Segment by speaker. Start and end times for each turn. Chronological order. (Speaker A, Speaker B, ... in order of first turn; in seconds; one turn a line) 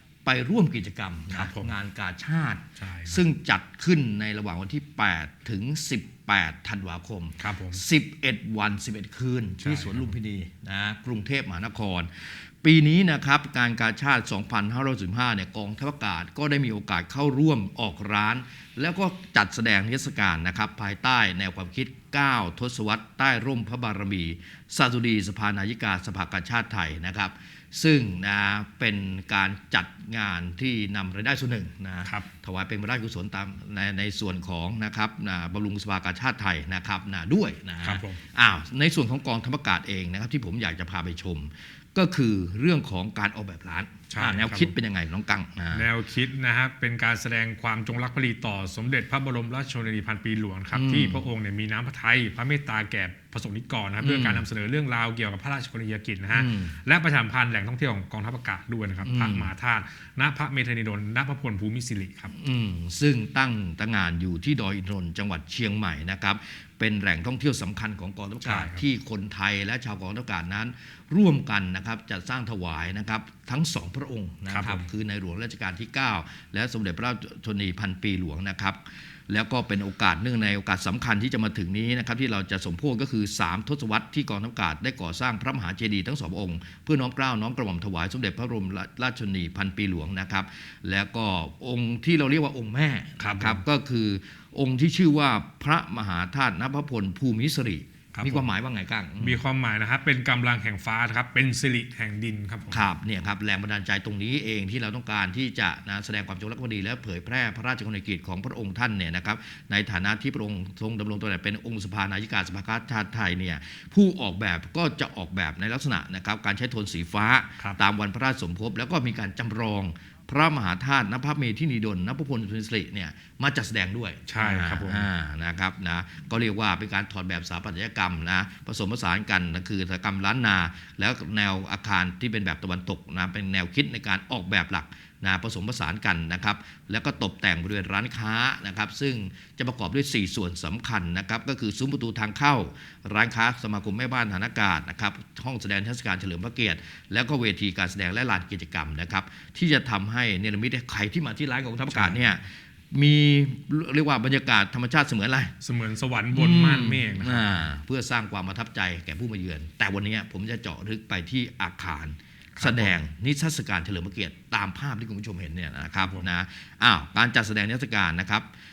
Speaker A: 0.2-45.9
Speaker B: 1.3-1.7
Speaker B: 2.8-3.2
Speaker B: 7.4-7.8
Speaker B: 9.6-10.1
Speaker B: 37.8-38.2
Speaker B: 44.1-44.7
Speaker B: 45.7-62.3
Speaker A: 50.7-51.2
Speaker A: 54.0-54.5
Speaker A: 56.3-56.8
Speaker A: 59.0-59.5
Speaker A: 62.3-99.4
Speaker B: 68.5-68.8
Speaker B: 74.5-74.9
Speaker B: 93.2-93.6
Speaker B: 98.1-98.5
Speaker B: 99.2-102.9
Speaker A: 102.7-155.6
Speaker B: 124.3-125.1
Speaker B: 151.9-152.3
Speaker B: 155.6-157.7
Speaker A: 156.3-168.5
Speaker B: 162.6-162.9